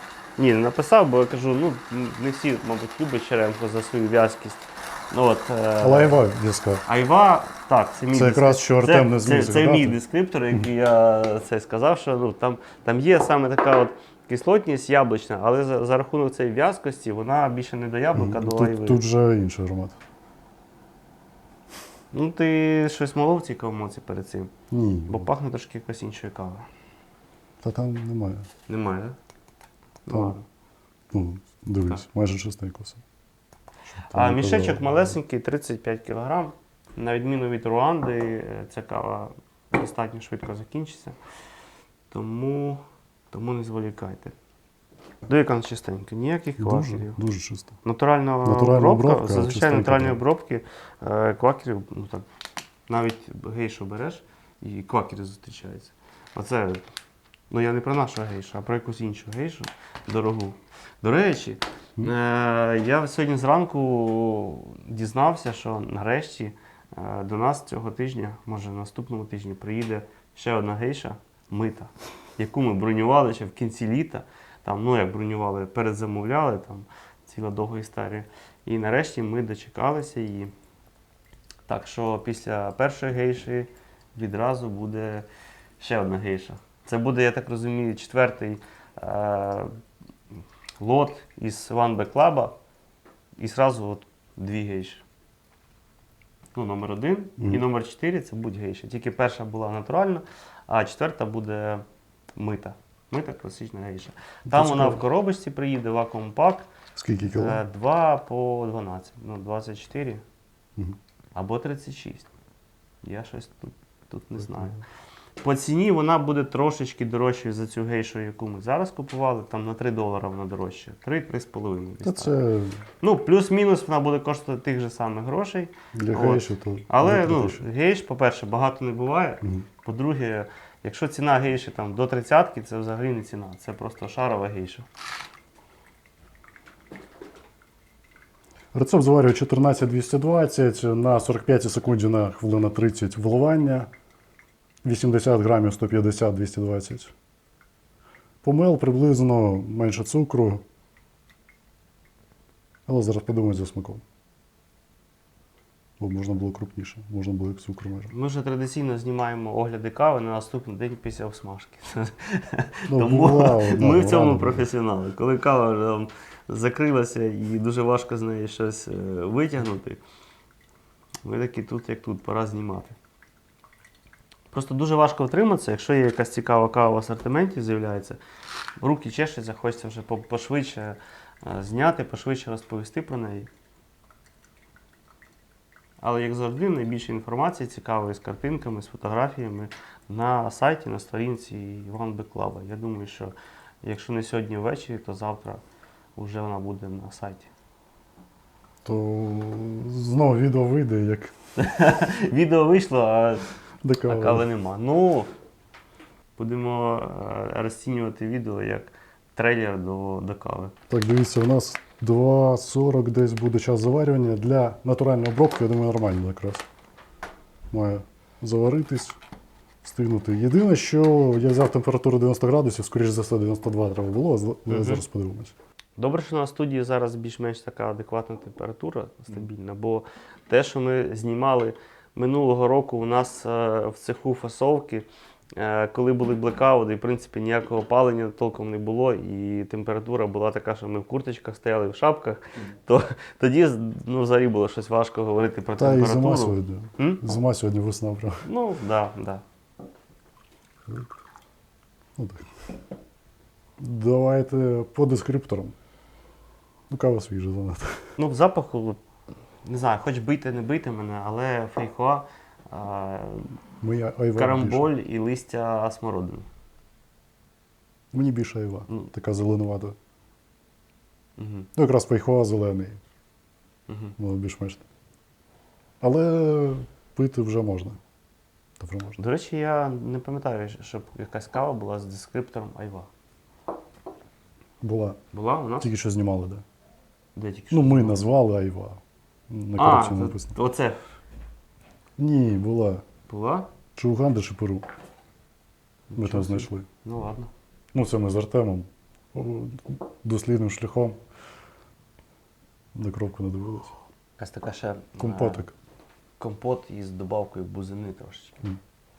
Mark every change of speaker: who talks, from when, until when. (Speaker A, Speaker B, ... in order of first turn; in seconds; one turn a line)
Speaker A: 0.4-6.2
Speaker B: 5.8-6.8
Speaker A: 6.9-19.0
Speaker B: 8.1-10.0
Speaker B: 18.1-20.0
Speaker A: 22.1-24.5
Speaker B: 24.7-25.3
Speaker A: 25.1-26.7
Speaker B: 27.6-28.5
Speaker A: 28.7-29.1
Speaker A: 30.0-30.4
Speaker B: 30.1-30.4
Speaker B: 31.1-33.0
Speaker B: 33.9-35.1
Speaker A: 34.1-41.2
Speaker A: 42.1-42.8
Speaker A: 43.3-44.3
Speaker A: 45.3-47.2
Speaker B: 46.6-47.8
Speaker A: 47.8-52.2
Speaker B: 48.4-50.2
Speaker A: 52.9-56.8
Speaker A: 57.5-80.5
Speaker A: 81.7-85.2
Speaker A: 85.8-89.7
Speaker A: 90.8-92.5
Speaker A: 93.4-95.0
Speaker A: 96.5-101.8
Speaker A: 102.4-106.7
Speaker B: 104.5-105.0
Speaker B: 107.0-107.6
Speaker A: 107.3-110.2
Speaker A: 111.3-112.3
Speaker A: 113.0-114.8
Speaker A: 115.4-122.4
Speaker B: 122.0-122.8
Speaker A: 123.0-134.8
Speaker B: 125.9-127.6
Speaker B: 138.7-143.9
Speaker B: 144.8-147.1
Speaker B: 148.4-150.6
Speaker B: 152.9-154.0
Speaker B: 156.0-158.1
Speaker A: 158.1-170.0
Speaker B: 162.9-164.6
Speaker A: 171.2-173.0
Speaker A: 174.5-178.2
Speaker A: 178.8-183.5
Speaker A: 186.0-195.6
Speaker A: 196.2-197.5
Speaker B: 198.8-201.3
Speaker A: 201.6-203.4
Speaker B: 203.8-204.4
Speaker A: 204.1-205.3
Speaker A: 206.4-210.7
Speaker B: 210.9-216.6
Speaker B: 217.7-219.2
Speaker B: 219.8-225.5
Speaker A: 224.7-225.0
Speaker A: 226.0-247.2
Speaker B: 245.8-248.4
Speaker A: 248.4-249.4
Speaker B: 252.2-252.5
Speaker B: 253.8-255.7
Speaker B: 256.9-258.0
Speaker A: 258.2-259.0
Speaker A: 259.6-263.5
Speaker B: 263.8-264.9
Speaker A: 264.4-266.4
Speaker B: 268.1-269.9
Speaker A: 271.4-271.7
Speaker B: 271.7-273.0
Speaker A: 273.9-274.1
Speaker B: 274.2-274.8
Speaker B: 276.0-278.0
Speaker B: 278.8-279.2
Speaker A: 279.2-283.1
Speaker B: 284.8-285.2
Speaker A: 285.3-285.9
Speaker B: 285.8-286.6
Speaker A: 287.3-288.2
Speaker B: 287.7-290.5
Speaker A: 289.8-291.0
Speaker B: 292.2-293.0
Speaker A: 293.3-293.7
Speaker B: 293.9-294.9
Speaker A: 296.1-297.5
Speaker B: 296.2-296.9
Speaker B: 297.9-301.1
Speaker B: 302.9-303.9
Speaker A: 304.4-305.7
Speaker B: 305.2-305.7
Speaker A: 306.4-308.6